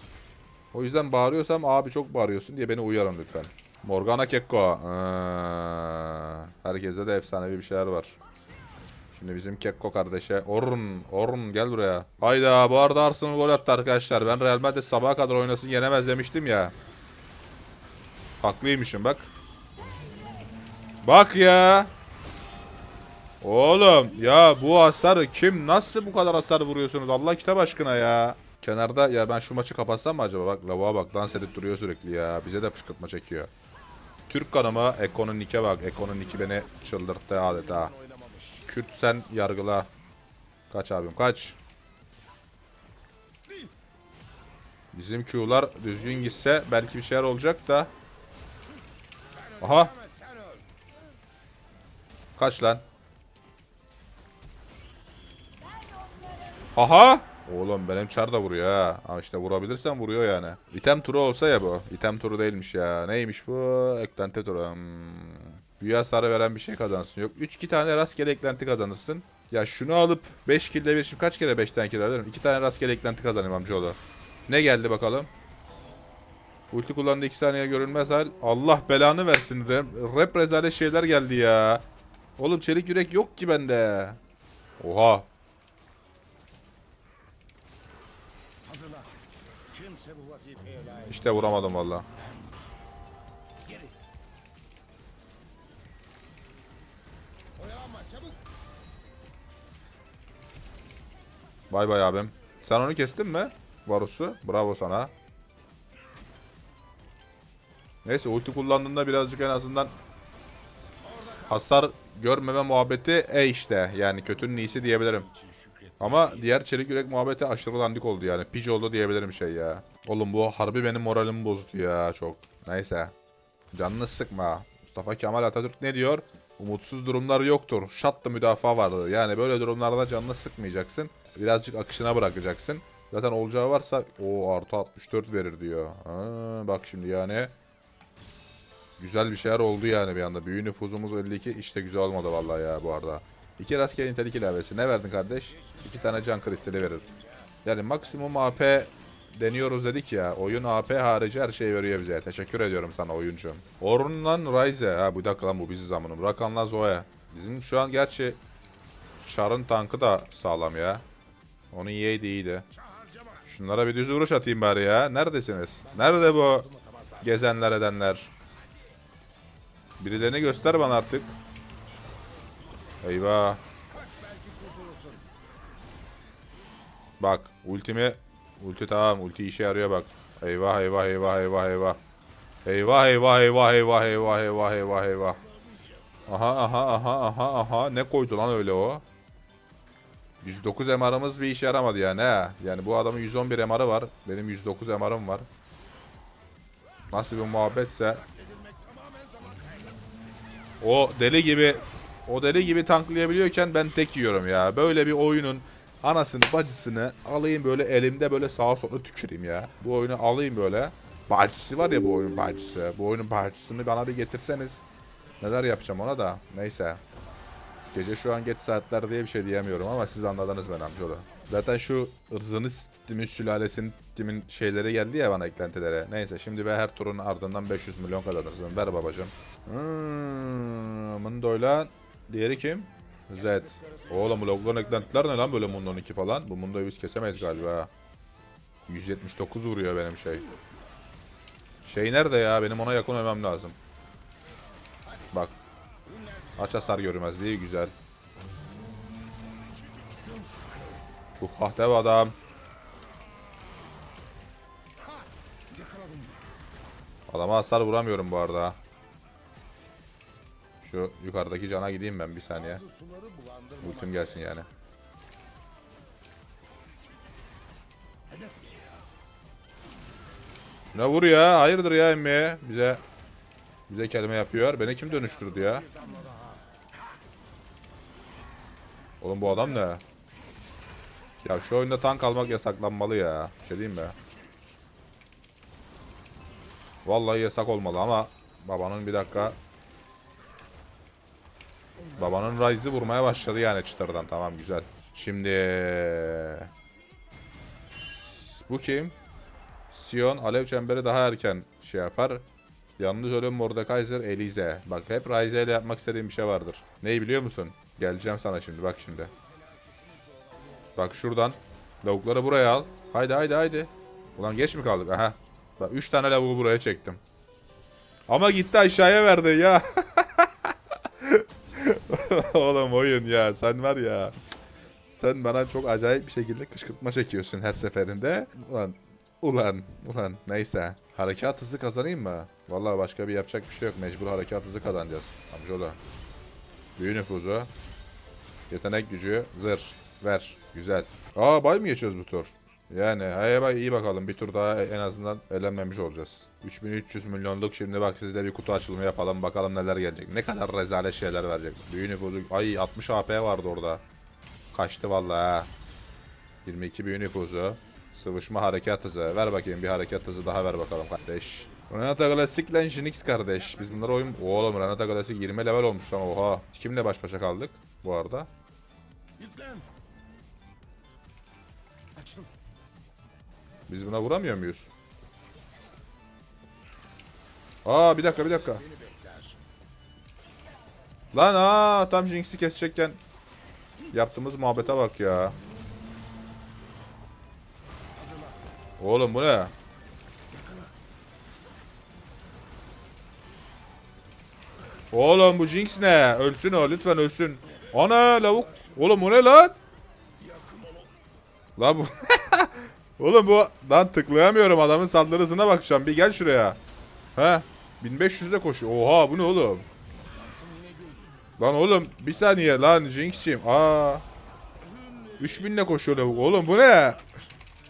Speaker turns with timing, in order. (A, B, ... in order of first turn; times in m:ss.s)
0:00.7-0:08.2 A
0:09.1-0:16.8 A
0:18.4-0:19.3 A
0:21.0-0:21.9 A
0:23.4-0:33.5 A
0:34.3-0:37.9 A
0:35.9-0:38.7 B
0:38.6-0:39.9 A
0:40.7-0:41.6 A
0:44.9-0:47.9 A
0:49.3-0:50.7 B
0:49.6-0:49.9 A
0:52.4-0:52.8 A
0:56.8-1:15.3 A
1:16.7-1:21.8 A
1:22.4-1:24.2 A
1:24.8-1:25.3 A
1:28.6-1:32.6 B
1:31.1-1:32.1 A
1:33.6-1:34.0 B
1:37.6-1:38.4 B
1:41.7-1:45.1 A
1:48.0-1:49.9 A
1:51.0-1:51.7 B
1:51.5-1:55.3 A
1:54.7-1:56.6 B
1:56.0-2:03.1 A
2:03.7-2:17.5 A
2:19.0-2:27.0 A
2:25.5-2:28.9 B
2:27.6-2:38.4 A
2:39.2-2:41.0 A
2:41.7-2:42.7 A
2:42.7-2:43.5 B
2:43.5-2:46.7 A
2:45.8-2:47.5 B
2:47.2-2:48.3 A
2:50.0-2:51.4 A
2:53.0-2:53.6 A
2:53.9-2:55.3 B
2:57.2-3:02.0 A
3:02.6-3:05.4 A
3:05.3-3:06.2 B
3:06.3-3:09.0 A
3:10.4-3:15.5 A
3:17.1-3:18.2 A
3:17.9-3:20.0 B
3:20.8-3:34.8 A
3:35.4-3:37.0 A
3:37.9-3:57.9 A
3:53.4-3:56.0 B
3:58.9-4:00.5 A
4:01.8-4:03.8 A
4:05.0-4:05.4 B
4:06.1-4:07.2 B
4:06.6-4:07.9 A
4:10.1-4:11.1 B
4:11.4-4:12.4 A
4:15.0-4:16.4 B
4:17.3-4:18.8 A
4:20.8-4:22.8 A
4:22.5-4:24.6 B
4:23.8-4:24.7 A
4:28.3-4:28.9 B
4:30.9-4:33.0 A
4:33.9-4:35.8 A
4:34.8-4:36.9 B
4:39.2-4:40.0 A
4:41.4-4:44.2 A
4:47.0-4:49.6 A
4:52.0-4:55.1 B
4:52.2-4:56.7 A
4:58.1-4:59.2 A
4:59.9-5:02.4 A
5:03.0-5:09.3 A
5:09.2-5:11.5 B
5:11.0-5:17.2 A
5:18.3-5:24.4 A
5:25.1-5:36.0 A
5:37.0-5:37.7 A
5:38.7-5:54.0 A
5:54.7-5:55.7 A
5:56.6-6:08.5 A
6:00.8-6:01.9 B
6:03.5-6:04.9 B
6:09.4-6:09.9 B
6:12.1-6:12.5 B
6:13.9-6:14.9 A
6:17.8-6:18.8 A
6:18.2-6:19.6 B
6:21.3-6:23.2 A
6:24.1-6:25.6 A
6:28.2-6:28.7 B
6:29.0-6:29.7 A
6:30.5-6:30.9 B
6:35.1-6:39.8 A
6:38.6-6:39.1 B
6:40.4-6:41.1 B
6:41.8-6:46.8 A
6:47.4-6:49.9 A
6:50.3-6:51.4 B
6:51.6-6:54.2 A
6:54.8-6:57.3 B
6:55.4-6:57.2 A